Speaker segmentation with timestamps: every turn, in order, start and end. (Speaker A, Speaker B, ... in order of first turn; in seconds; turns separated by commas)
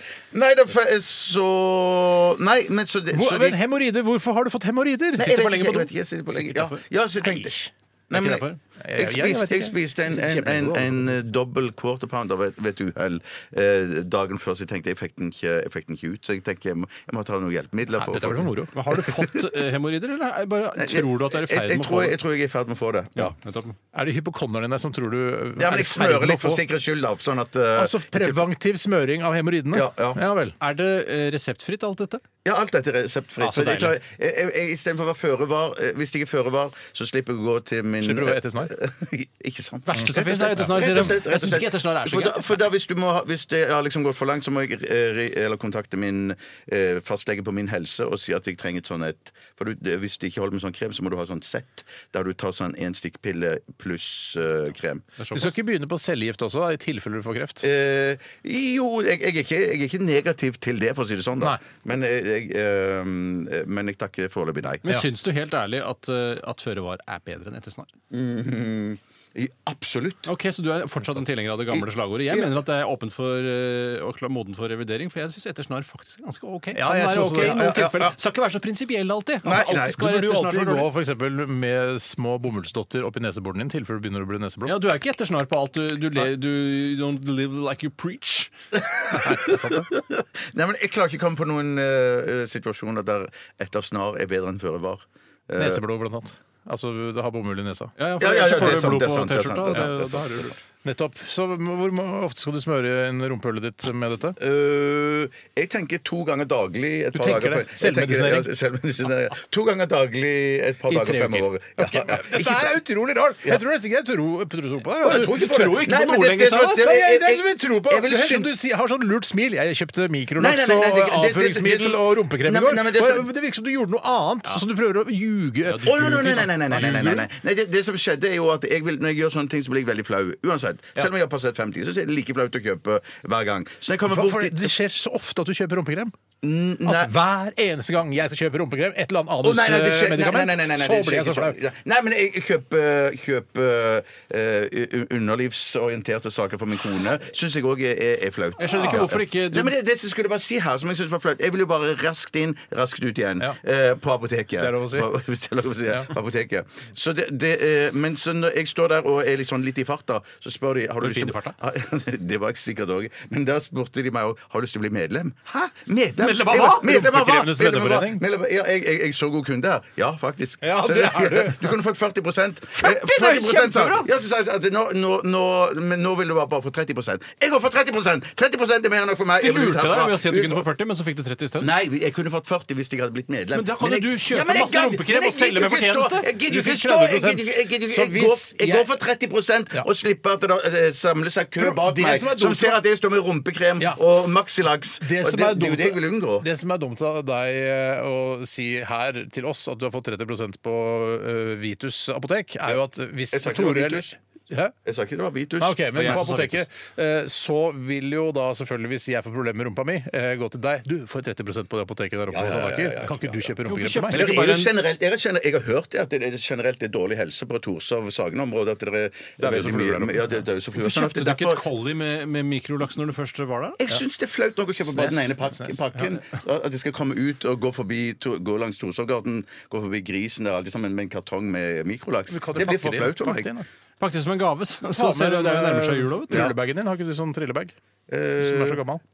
Speaker A: 0.3-3.6, Speaker B: 3.1-5.7, Speaker A: 5.2-19.5, Speaker C: 5.3-6.8, Speaker B: 7.2-11.2, Speaker C: 8.1-8.6, Speaker B: 17.9-18.7, Speaker C: 18.7-22.2, Speaker A: 20.7-23.3, Speaker C: 23.1-23.8, Speaker B: 23.9-26.6, Speaker A: 25.6-28.4, Speaker B: 27.7-30.6, Speaker A: 29.7-30.2, Speaker C: 30.6-32.2, Speaker A: 32.4-55.0, Speaker C: 33.4-34.0, Speaker B: 38.0-38.7, Speaker C: 39.9-42.6, Speaker C: 55.2-55.5, Speaker B: 55.3-57.6, Speaker A: 57.6-64.8, Speaker C: 64.8-67.9, Speaker A: 68.1-70.3, Speaker C: 70.3-80.9, Speaker A: 71.7-72.5, Speaker B: 76.7-78.1, Speaker A: 77.4-78.1, Speaker A: 79.4-80.0, Speaker B: 79.6-84.8, Speaker C: 84.7-88.5, Speaker A: 88.7-95.8, Speaker B: 89.1-89.9, Speaker B: 95.6-97.9, Speaker C: 98.0-100.5, Speaker A: 98.2-100.5, Speaker B: 99.7-104.4, Speaker A: 104.4-112.8, Speaker B: 107.1-108.5, Speaker B: 110.9-115.4, Speaker A: 115.0-118.5, Speaker C: 115.0-116.8, Speaker B: 116.7-127.3, Speaker A: 120.4-123.3, Speaker C: 125.7-126.9, Speaker A: 125.8-134.7, Speaker B: 134.1-136.1, Speaker A: 136.4-137.1, Speaker B: 136.8-141.6, Speaker A: 139.4-180.7, Speaker C: 148.6-149.7, Speaker B: 154.5-155.1, Speaker C: 161.0-161.5, Speaker C: 166.2-166.8, Speaker B: 166.2-168.2, Speaker B: 170.6-171.7, Speaker C: 172.8-174.1, Speaker C: 179.4-181.7, Speaker A: 181.6-196.4, Speaker C: 183.5-186.3, Speaker B: 186.4-188.9, Speaker B: 191.6-192.8, Speaker B: 195.0-204.7, Speaker A: 203.3-204.1, Speaker A: 204.8-206.2, Speaker B: 205.6-214.2, Speaker C: 205.9-206.6, Speaker A: 212.3-213.5, Speaker C: 213.7-214.7, Speaker A: 214.1-221.6, Speaker B: 219.4-220.4, Speaker C: 220.7-223.8, Speaker A: 223.8-233.5, Speaker B: 224.8-225.8, Speaker B: 232.3-233.7, Speaker C: 234.0-236.5, Speaker B: 234.9-237.7, Speaker A: 238.1-238.8, Speaker B: 238.4-239.0